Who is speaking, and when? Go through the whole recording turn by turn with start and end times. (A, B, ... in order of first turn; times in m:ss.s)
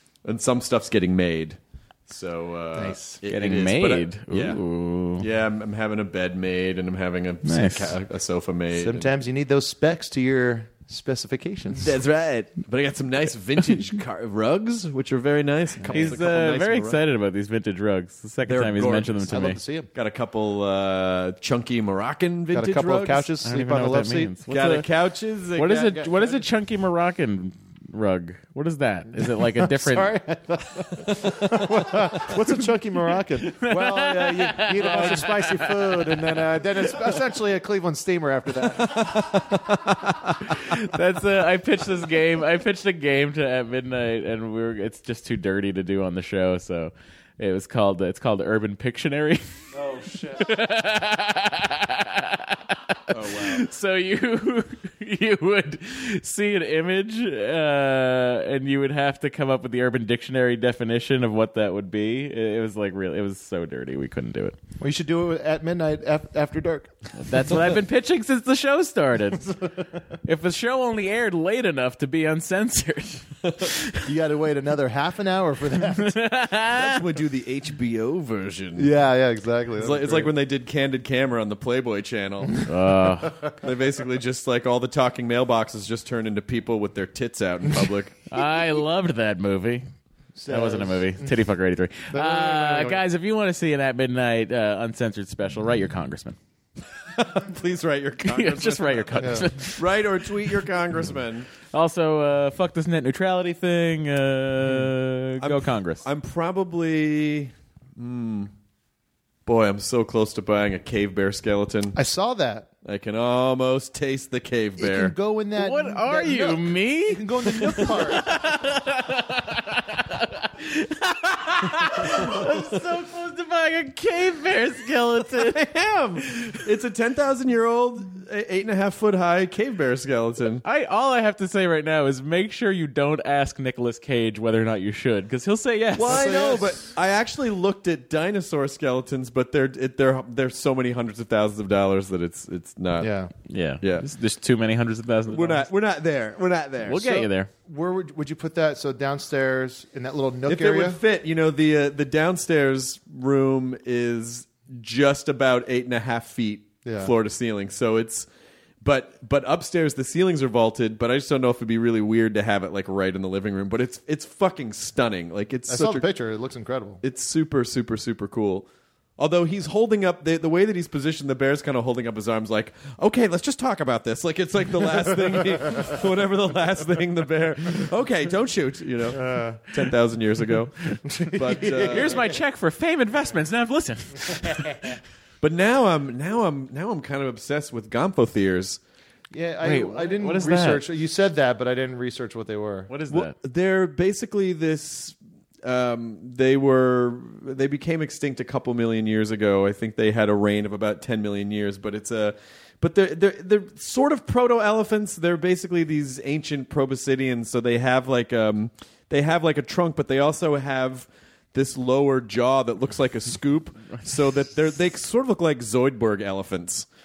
0:00.2-0:04.6 A
0:02.7-0:03.2 B
0:03.2-0:05.2 C
0:05.2-0:09.1 A
0:07.4-0:08.0 C
0:08.7-0:12.0 B
0:11.8-0:17.0 A
0:15.8-0:16.1 B
0:15.9-0:19.6 C
0:18.4-0:19.3 A
0:19.3-0:19.9 B
0:19.9-0:23.3 A
0:22.5-0:24.3 B
0:23.4-0:24.9 C
0:24.5-0:26.4 A
0:25.6-0:30.1 C
0:29.1-0:39.6 B
0:33.4-0:36.2 C
0:38.8-0:40.4 A
0:40.5-0:49.4 C
0:49.7-0:50.5 B
0:50.3-1:04.6 C
0:53.1-0:53.6 A
1:04.8-1:06.9 B
1:07.2-1:09.6 C
1:09.4-1:09.9 B
1:10.2-1:14.0 C
1:14.0-1:16.2 B
1:16.0-1:17.0 C
1:16.7-1:18.9 A
1:18.8-1:20.3 B
1:19.8-1:22.7 A
1:22.6-1:23.4 C
1:23.5-1:28.2 A
1:28.3-1:29.9 C
1:30.3-1:31.4 B
1:30.5-1:36.4 C
1:32.1-1:33.0 B
1:37.1-1:41.5 A
1:38.2-1:40.5 C
1:39.2-1:39.5 B
1:41.7-1:46.0 C
1:45.4-1:48.5 A
1:49.4-1:52.0 A
1:51.9-1:52.7 B
1:52.8-1:55.1 A
1:54.8-1:58.4 B
1:55.6-2:05.6 C
2:05.4-2:10.6 A
2:06.3-2:06.5 C
2:10.6-2:16.3 C
2:16.0-2:23.1 A
2:16.1-2:16.8 B
2:23.0-2:23.3 B
2:23.5-2:25.7 C
2:23.8-2:24.1 A
2:25.3-2:27.3 A
2:26.8-2:27.5 C
2:27.6-2:31.0 B
2:30.5-2:38.3 A
2:36.8-2:37.1 B
2:38.8-2:46.1 A
2:45.7-2:47.0 B
2:47.0-2:48.7 A
2:49.2-3:02.3 A
2:59.1-2:59.7 B
3:01.0-3:02.4 B
3:01.9-3:04.9 C
3:04.4-3:04.9 B
3:05.4-3:08.8 A
3:09.3-3:12.9 B
3:09.6-3:10.8 C
3:12.9-3:13.3 C
3:13.1-3:36.9 A